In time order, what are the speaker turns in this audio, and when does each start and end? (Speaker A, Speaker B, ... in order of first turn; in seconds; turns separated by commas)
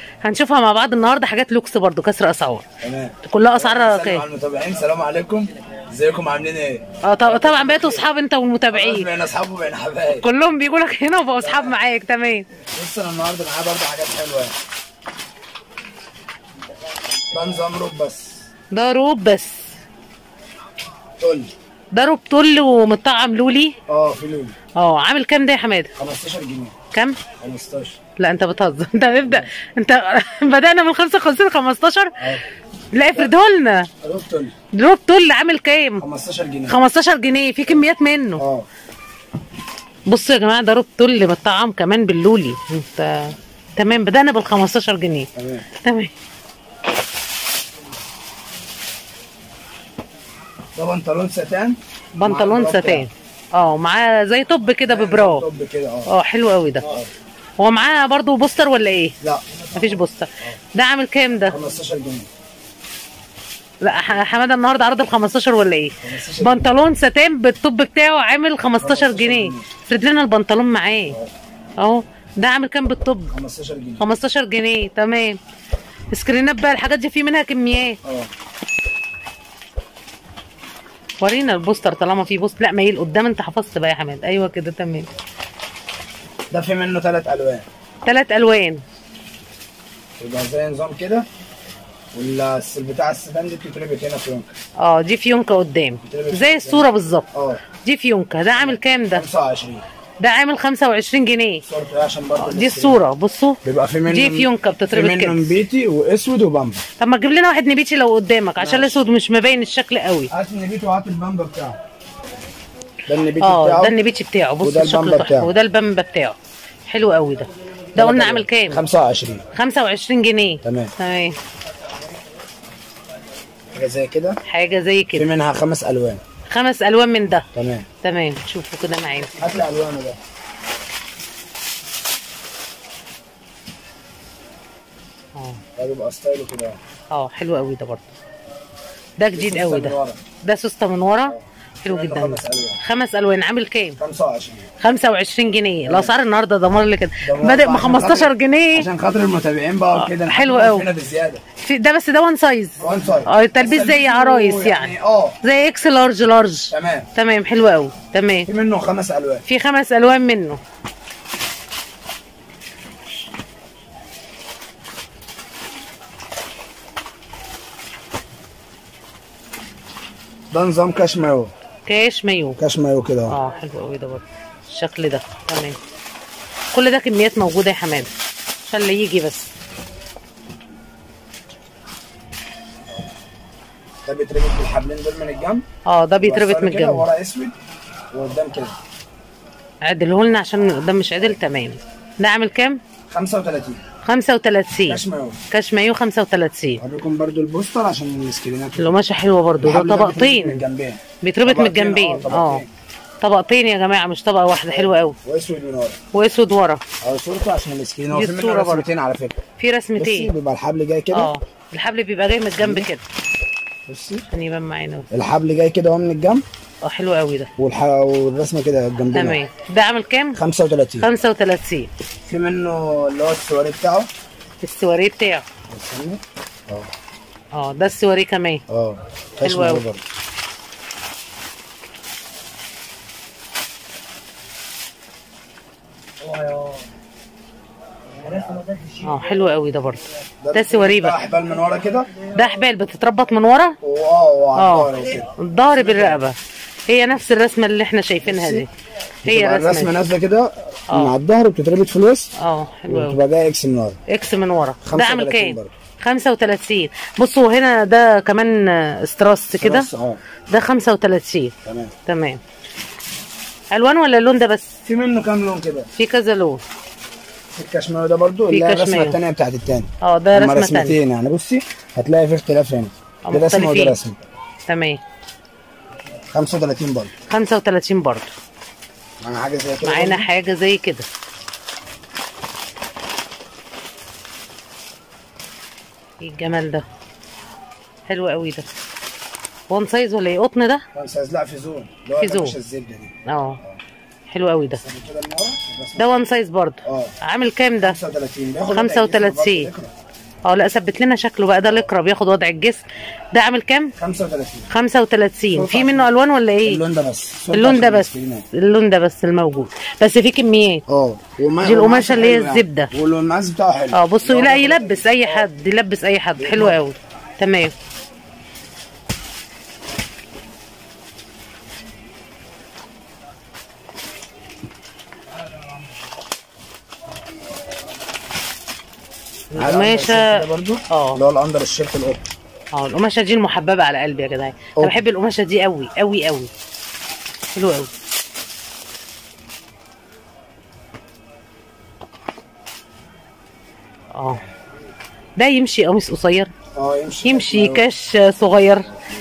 Speaker A: 0.2-2.6, Speaker B: 2.8-8.1, Speaker A: 3.2-4.2, Speaker A: 7.0-9.1, Speaker B: 8.7-10.3, Speaker A: 10.2-12.5, Speaker B: 11.4-11.8, Speaker B: 12.7-14.6, Speaker B: 17.3-18.4, Speaker A: 18.7-19.7, Speaker B: 21.2-21.5, Speaker A: 21.9-23.8, Speaker B: 23.9-24.6, Speaker A: 24.8-25.9, Speaker B: 26.0-26.8, Speaker A: 26.9-27.2, Speaker B: 27.4-28.0, Speaker A: 28.2-32.3, Speaker B: 29.2-29.5, Speaker A: 32.9-33.9, Speaker B: 34.0-34.5, Speaker A: 34.7-36.0, Speaker B: 36.0-36.8, Speaker A: 36.7-38.4, Speaker B: 38.4-38.7, Speaker A: 40.1-46.1, Speaker B: 45.4-45.7, Speaker B: 50.8-53.1, Speaker A: 52.2-55.5, Speaker B: 54.9-56.1, Speaker A: 56.1-56.9, Speaker B: 56.8-57.1, Speaker A: 57.6-59.2, Speaker B: 59.2-60.6, Speaker A: 59.7-61.6, Speaker B: 61.5-62.3, Speaker A: 63.8-71.2, Speaker B: 66.0-66.7, Speaker B: 68.8-69.7, Speaker A: 71.8-73.3, Speaker B: 73.3-74.1, Speaker A: 74.0-75.4, Speaker A: 76.1-78.0, Speaker B: 78.0-78.3, Speaker A: 81.2-85.1, Speaker B: 86.5-87.7, Speaker A: 88.0-88.8, Speaker B: 90.2-91.3, Speaker B: 92.1-94.5, Speaker A: 94.8-97.3, Speaker B: 96.0-97.6, Speaker A: 97.8-99.2, Speaker B: 98.6-99.8, Speaker A: 100.2-101.6, Speaker B: 101.7-103.0, Speaker A: 102.4-105.5, Speaker B: 103.6-106.8, Speaker A: 107.0-110.3, Speaker B: 108.6-109.1, Speaker B: 110.3-111.8, Speaker B: 113.1-114.0, Speaker A: 113.4-116.4, Speaker B: 114.6-115.5, Speaker A: 116.9-118.8, Speaker B: 118.0-119.4, Speaker A: 119.5-121.4, Speaker B: 120.6-120.9, Speaker B: 123.7-124.4, Speaker A: 124.5-125.3, Speaker B: 125.2-126.2, Speaker A: 126.5-127.5, Speaker B: 127.5-127.9, Speaker A: 128.0-129.4, Speaker B: 129.4-130.2, Speaker A: 135.3-135.6, Speaker B: 135.8-136.8, Speaker A: 137.1-138.1, Speaker A: 139.2-144.0, Speaker B: 139.3-140.2, Speaker B: 141.3-142.8, Speaker B: 144.0-144.7, Speaker A: 144.8-148.9, Speaker B: 145.9-146.1, Speaker B: 147.2-151.4, Speaker A: 149.9-150.9, Speaker A: 151.6-158.5, Speaker B: 152.8-155.4, Speaker B: 156.7-157.1, Speaker B: 158.5-159.4, Speaker A: 159.5-160.6, Speaker B: 170.5-171.5, Speaker A: 171.9-172.6, Speaker B: 172.6-173.4, Speaker A: 173.3-175.8, Speaker A: 176.7-178.1, Speaker A: 178.7-179.5, Speaker B: 184.1-185.6, Speaker A: 185.9-187.1, Speaker B: 186.2-187.6, Speaker B: 188.1-188.8, Speaker A: 189.8-192.8, Speaker B: 193.1-193.8, Speaker A: 194.0-195.0, Speaker B: 194.9-195.4, Speaker A: 195.5-196.8, Speaker B: 196.8-199.0, Speaker A: 198.8-200.6, Speaker B: 199.6-202.7, Speaker A: 201.2-202.6, Speaker A: 203.2-205.2, Speaker B: 204.7-206.0, Speaker A: 206.1-206.8, Speaker B: 207.0-209.4, Speaker A: 208.1-208.9, Speaker A: 209.6-210.3, Speaker B: 210.0-211.3, Speaker A: 211.1-213.0, Speaker B: 212.6-212.9, Speaker B: 213.9-214.3, Speaker A: 214.3-215.1, Speaker B: 215.1-216.4, Speaker A: 216.8-217.5, Speaker B: 217.6-219.4, Speaker A: 219.1-220.4, Speaker B: 220.3-221.1, Speaker A: 221.0-221.9, Speaker B: 222.2-224.1, Speaker A: 224.6-225.5, Speaker B: 225.7-226.9, Speaker A: 227.5-228.6, Speaker B: 228.7-230.0, Speaker A: 229.4-229.8, Speaker B: 238.2-238.8, Speaker A: 239.0-241.2, Speaker B: 240.4-242.1, Speaker A: 242.3-243.8, Speaker B: 243.8-246.2, Speaker A: 244.6-246.4, Speaker A: 246.9-248.7, Speaker B: 248.2-248.7, Speaker B: 249.2-252.3, Speaker A: 249.2-250.0, Speaker A: 252.4-253.2, Speaker B: 252.9-254.0, Speaker A: 254.1-259.9, Speaker B: 254.8-255.7, Speaker B: 259.6-260.2, Speaker A: 260.5-261.5, Speaker B: 261.6-261.9, Speaker A: 262.1-262.4, Speaker A: 263.7-264.7, Speaker B: 264.9-265.9, Speaker A: 265.9-266.6, Speaker B: 267.5-274.3, Speaker A: 268.5-269.2, Speaker A: 270.0-271.0, Speaker A: 273.2-274.0, Speaker A: 274.7-275.0, Speaker B: 276.3-277.1, Speaker A: 277.3-278.3, Speaker B: 279.2-280.3, Speaker A: 279.8-281.1, Speaker A: 286.2-286.9, Speaker A: 288.1-288.7, Speaker A: 289.7-290.9, Speaker B: 290.9-293.8, Speaker A: 292.2-292.6, Speaker A: 293.3-293.6, Speaker A: 294.3-294.8, Speaker B: 294.8-296.1, Speaker A: 296.0-298.0, Speaker B: 296.9-297.1, Speaker B: 297.8-299.9, Speaker A: 298.7-299.7, Speaker A: 300.5-303.9, Speaker B: 304.0-304.7, Speaker A: 304.7-306.8, Speaker B: 305.5-306.1, Speaker B: 306.6-308.5, Speaker A: 307.5-310.8, Speaker B: 310.9-315.5, Speaker A: 311.6-312.9, Speaker A: 313.9-317.7, Speaker B: 316.4-316.8, Speaker A: 329.5-331.2, Speaker B: 329.6-332.3, Speaker A: 332.7-336.5, Speaker B: 334.8-335.0, Speaker A: 337.5-337.9, Speaker A: 344.1-344.4, Speaker A: 345.4-346.5, Speaker B: 346.8-347.9, Speaker A: 347.2-348.9